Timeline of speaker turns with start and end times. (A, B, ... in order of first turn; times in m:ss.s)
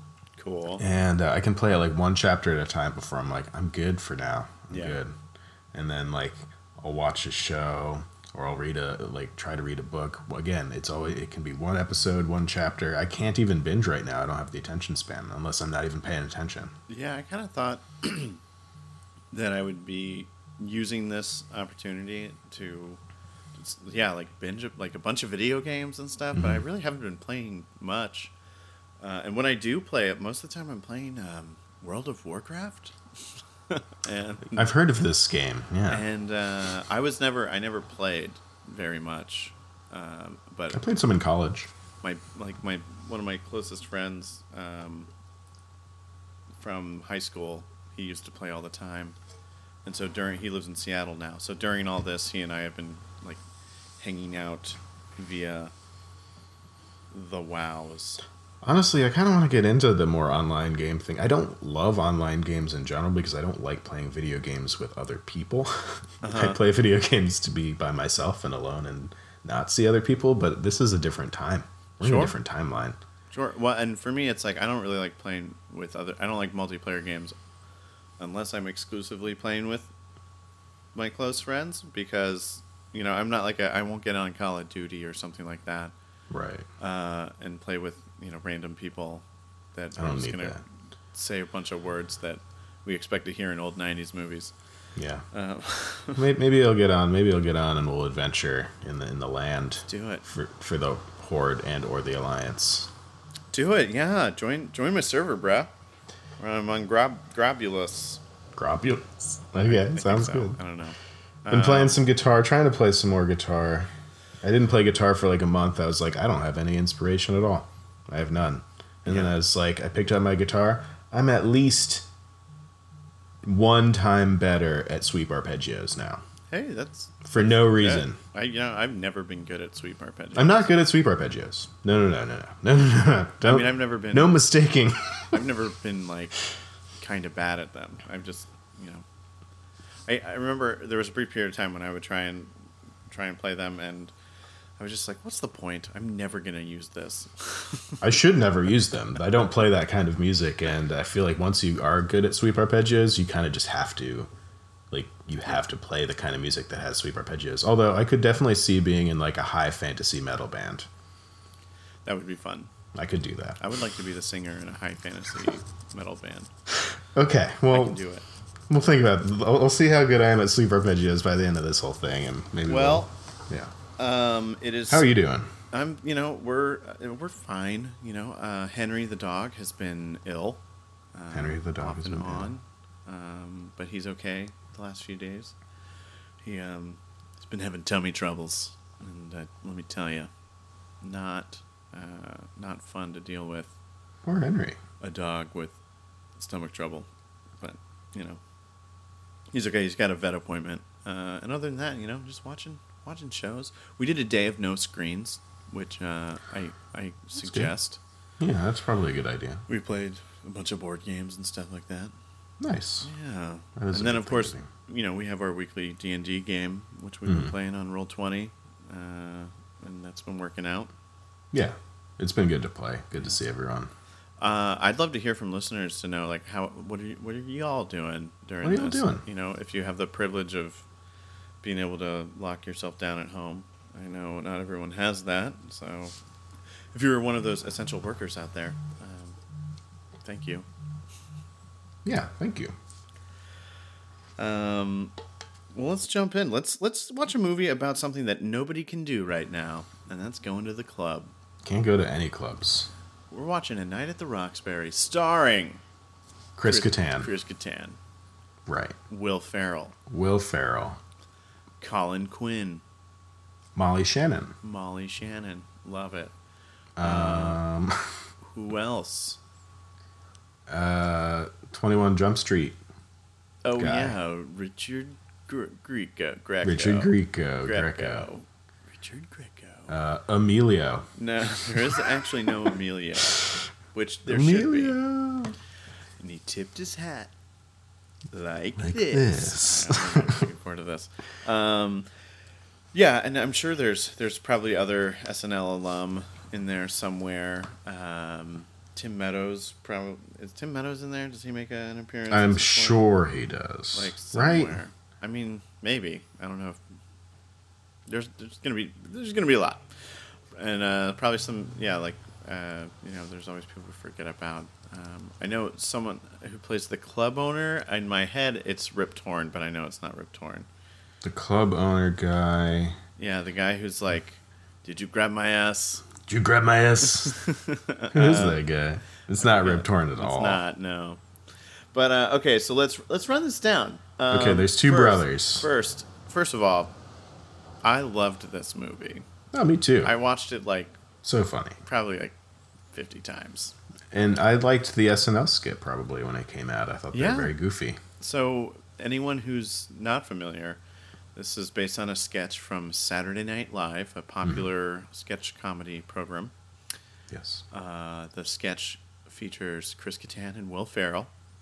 0:00.4-0:00.8 A
0:00.8-0:05.1 B
0:04.7-0:05.0 A
0:05.7-0:16.7 B
0:16.9-0:18.4 A
0:19.3-0:23.0 A
0:23.6-0:28.3 A
0:26.3-0:26.6 B
0:29.0-0:33.0 A
0:33.7-0:34.8 A
0:34.5-0:36.0 B
0:35.9-0:40.8 A
0:40.7-0:41.7 B
0:42.0-0:45.1 A
0:46.6-0:49.2 A
0:49.8-0:53.4 A
0:54.0-0:55.7 A
0:57.1-0:58.2 A
0:58.6-1:13.0 B
1:06.2-1:06.6 A
1:12.0-1:12.4 A
1:13.3-1:17.4 A
1:18.2-1:19.9 A
1:21.0-1:25.9 A
1:26.3-1:26.7 B
1:26.8-1:30.6 A
1:30.0-1:30.6 B
1:31.1-1:34.5 A
1:35.0-1:35.2 B
1:35.3-1:36.2 A
1:36.2-1:42.9 B
1:39.9-1:40.3 A
1:43.5-1:45.7 A
1:46.4-1:48.2 A
1:48.6-1:50.6 B
1:49.6-1:52.0 A
1:51.5-1:53.9 B
1:54.4-2:02.1 B
1:59.1-1:59.4 A
2:03.4-2:06.2 B
2:06.5-2:10.7 A
2:07.2-2:08.2 B
2:10.4-2:15.4 B
2:13.4-2:14.4 A
2:15.3-2:16.4 A
2:17.0-2:19.0 A
2:20.1-2:22.5 A
2:23.1-2:24.1 A
2:24.8-2:28.2 A
2:28.0-2:34.3 B
2:34.9-2:40.9 B
2:42.0-2:42.7 A
2:43.0-2:43.6 B
2:43.6-2:46.5 A
2:46.8-2:48.0 B
2:47.7-2:48.3 A
2:48.7-2:53.7 B
2:52.7-2:53.1 A
2:54.0-2:55.1 A
2:54.9-2:55.5 B
2:55.7-3:00.6 A
3:01.1-3:05.6 A
3:01.3-3:02.5 B
3:06.4-3:10.3 A
3:11.0-3:13.7 A
3:14.2-3:14.8 B
3:15.0-3:15.8 A
3:16.4-3:17.1 A
3:17.6-3:18.4 A
3:19.5-3:28.0 A
3:27.4-3:27.7 B
3:28.4-3:29.6 B
3:29.7-3:32.1 A
3:32.6-3:33.1 B
3:33.0-3:40.9 A
3:33.8-3:34.7 B
3:37.3-3:37.5 B
3:41.5-3:43.9 B
3:44.4-3:50.8 A
3:48.6-3:49.2 B
3:51.6-3:56.2 A
3:56.9-3:59.4 A
4:00.2-4:00.7 A
4:02.0-4:02.8 B
4:04.4-4:05.2 A
4:05.7-4:11.3 A
4:11.6-4:12.9 B
4:13.3-4:15.8 A
4:16.6-4:17.3 B
4:16.6-4:18.0 A
4:18.7-4:19.0 B
4:19.1-4:20.0 A
4:20.1-4:21.0 B
4:21.8-4:22.8 A
4:23.8-4:24.6 B
4:24.6-4:26.3 A
4:27.0-4:28.2 B
4:27.0-4:27.6 A
4:28.4-4:29.4 A
4:30.7-4:32.8 B
4:33.6-4:39.9 A
4:33.8-4:34.2 B
4:36.6-4:38.3 B
4:39.9-4:41.1 B
4:41.2-4:45.0 A
4:44.3-4:45.6 B
4:46.2-4:47.3 A
4:48.3-4:52.1 A
4:48.8-4:50.4 B
4:52.9-5:03.1 A
5:02.3-5:04.8 B
5:03.9-5:06.8 A
5:08.1-5:09.9 A
5:10.6-5:20.7 A
5:21.2-5:23.0 B
5:23.2-5:26.1 A
5:26.2-5:27.4 B
5:27.2-5:28.6 A
5:28.1-5:30.6 B
5:29.4-5:31.2 A
5:31.9-5:36.9 A
5:34.3-5:35.7 B
5:37.8-5:39.3 A
5:39.5-5:40.2 B
5:40.0-5:41.0 A
5:41.2-5:41.8 B
5:41.8-5:42.4 A
5:42.9-5:43.8 A
5:44.1-5:48.0 B
5:47.1-5:47.6 A
5:48.2-5:50.8 A
5:51.4-5:56.5 A
5:57.3-5:57.6 B
5:57.7-6:01.3 A